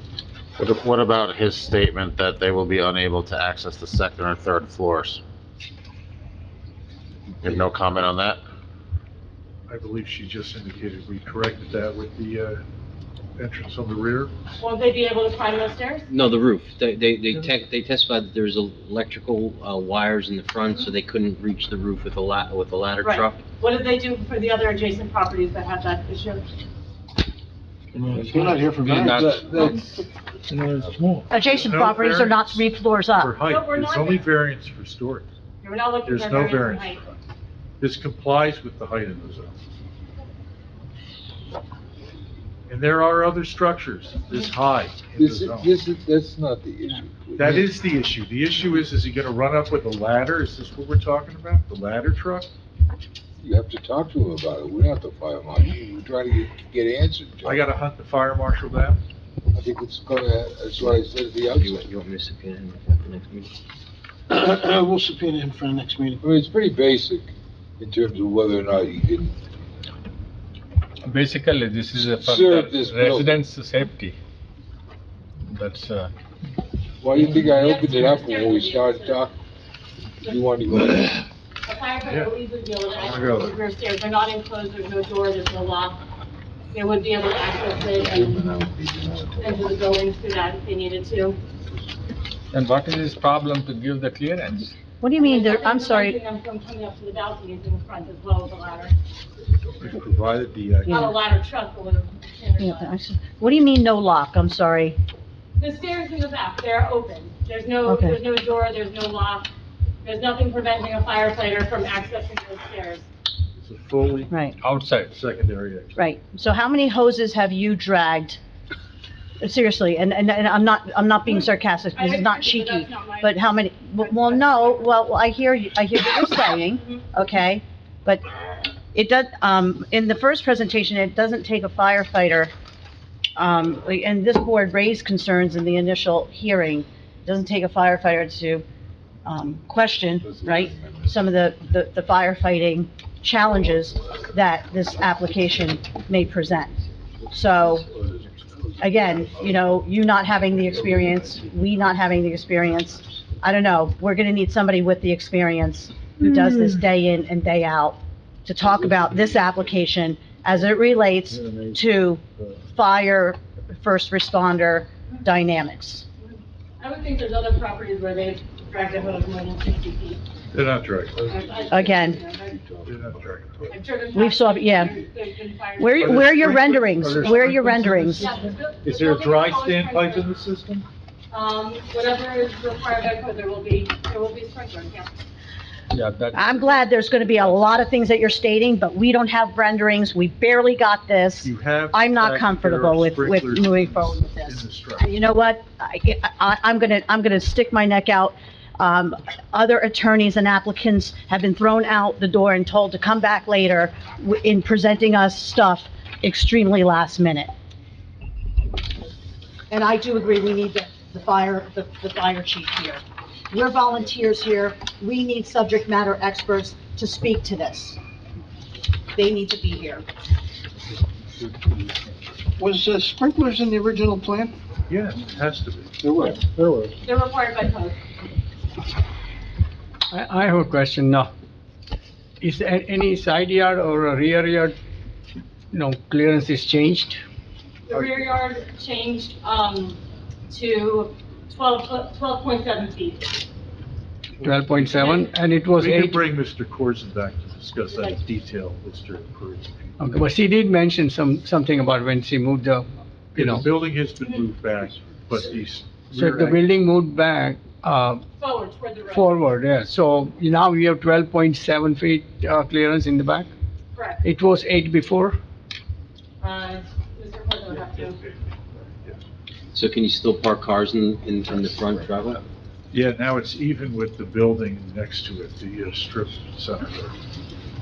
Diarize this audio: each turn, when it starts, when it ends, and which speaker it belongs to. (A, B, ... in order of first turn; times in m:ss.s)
0:00.6-0:05.2 A
0:07.4-0:08.4 A
0:09.7-0:12.6 B
0:13.4-0:14.3 B
0:14.6-0:16.1 C
0:16.1-0:23.4 D
0:23.0-0:26.4 C
0:27.9-0:29.7 E
0:28.2-0:29.7 F
0:28.9-0:30.0 G
0:30.5-0:31.2 E
0:31.3-0:33.4 H
0:31.5-0:35.3 B
0:33.4-0:34.2 C
0:35.6-0:37.0 C
0:36.0-0:37.2 B
0:37.8-0:39.5 B
0:42.7-0:45.7 B
0:45.2-0:47.7 G
0:47.4-0:52.5 B
0:53.4-0:57.6 G
0:57.4-0:59.0 B
0:59.5-1:01.8 G
1:00.8-1:03.5 D
1:04.3-1:06.2 E
1:06.2-1:09.3 G
1:11.0-1:14.2 F
1:12.2-1:13.4 G
1:15.5-1:16.1 F
1:17.0-1:19.4 G
1:17.4-1:19.2 C
1:20.2-1:21.2 G
1:21.6-1:26.0 C
1:22.1-1:22.3 B
1:22.9-1:23.6 B
1:26.7-1:28.4 C
1:27.9-1:29.8 G
1:29.4-1:31.4 C
1:32.5-1:34.7 F
1:35.0-1:36.2 H
1:35.2-1:38.9 C
1:39.8-1:41.2 B
1:40.9-1:41.2 H
1:40.9-1:42.9 C
1:42.6-1:45.0 H
1:45.6-1:49.5 C
1:47.8-1:48.2 H
1:50.0-1:53.1 C
1:53.6-1:54.3 B
1:54.3-1:54.6 H
1:54.6-1:55.1 F
1:55.1-1:56.1 B
1:56.0-1:58.4 H
1:59.4-2:08.2 H
2:01.3-2:03.4 C
2:04.0-2:04.9 C
2:08.9-2:12.5 H
2:13.4-2:18.6 H
2:19.2-2:26.8 H
2:20.2-2:21.2 G
2:27.3-2:27.9 H
2:28.8-2:46.0 H
2:38.7-2:39.6 G
2:46.2-2:50.2 C
2:50.5-2:51.3 B
2:51.3-2:52.6 C
2:51.4-2:53.0 G
2:51.7-2:52.2 H
2:52.8-2:53.8 B
2:53.7-2:57.5 C
2:54.1-2:55.0 H
2:55.8-2:58.3 H
2:56.0-3:00.8 B
2:58.1-3:00.3 C
3:01.3-3:05.1 C
3:05.9-3:06.7 F
3:06.3-3:27.5 H
3:11.4-3:15.1 B
3:29.7-3:38.0 H
3:39.1-3:40.0 H
3:42.6-3:44.6 E
3:44.9-3:45.9 B
3:46.0-3:46.7 E
3:47.0-3:48.0 C
3:50.1-3:51.3 I
3:52.4-3:54.7 I
3:55.7-3:57.2 I
3:57.9-4:03.3 C
4:04.4-4:06.3 I
4:04.8-4:05.3 C
4:05.8-4:10.2 B
4:07.9-4:08.2 C
4:10.0-4:13.6 I
4:13.3-4:16.6 B
4:16.1-4:18.2 I
4:18.4-4:19.4 C
4:19.1-4:23.5 I
4:23.9-4:24.2 C
4:24.2-4:25.4 I
4:26.4-4:28.2 C
4:29.7-4:32.4 D
4:32.9-4:37.2 B